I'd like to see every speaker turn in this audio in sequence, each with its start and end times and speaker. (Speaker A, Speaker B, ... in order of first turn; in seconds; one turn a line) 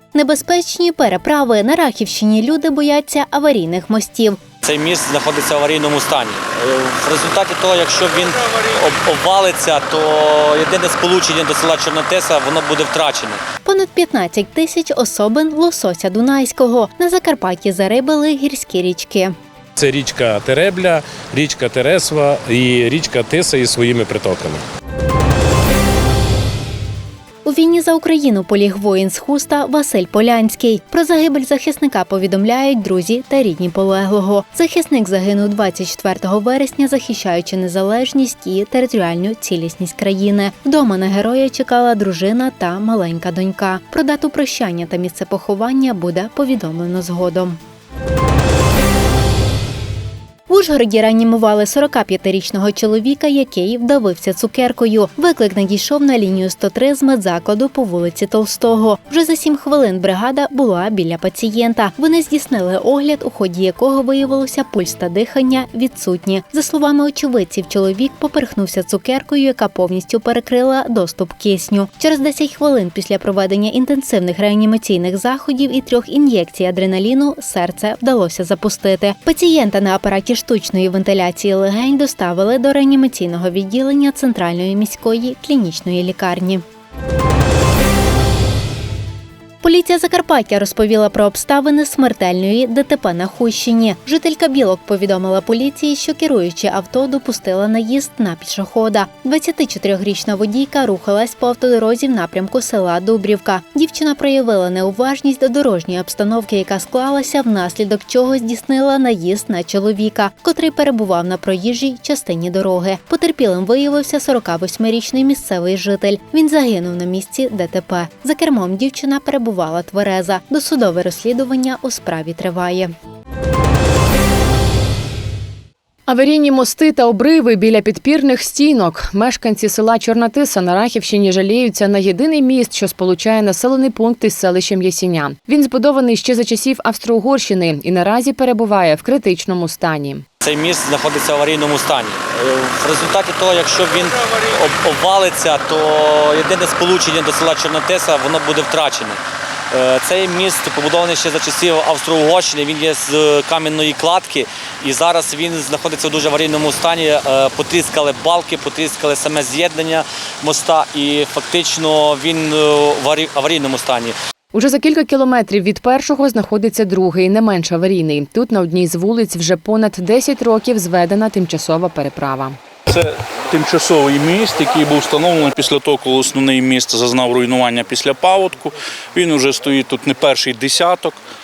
Speaker A: 0.1-4.4
Speaker B: 4.6-13.4
Speaker A: 13.7-19.4
Speaker C: 19.8-24.6
Speaker A: 27.5-47.6
Speaker A: 50.5-86.6
Speaker A: 89.6-122.9
Speaker D: 126.1-140.2
Speaker B: 140.4-149.2
Speaker B: 149.7-164.2
Speaker D: 164.5-172.6
Speaker E: 172.9-181.2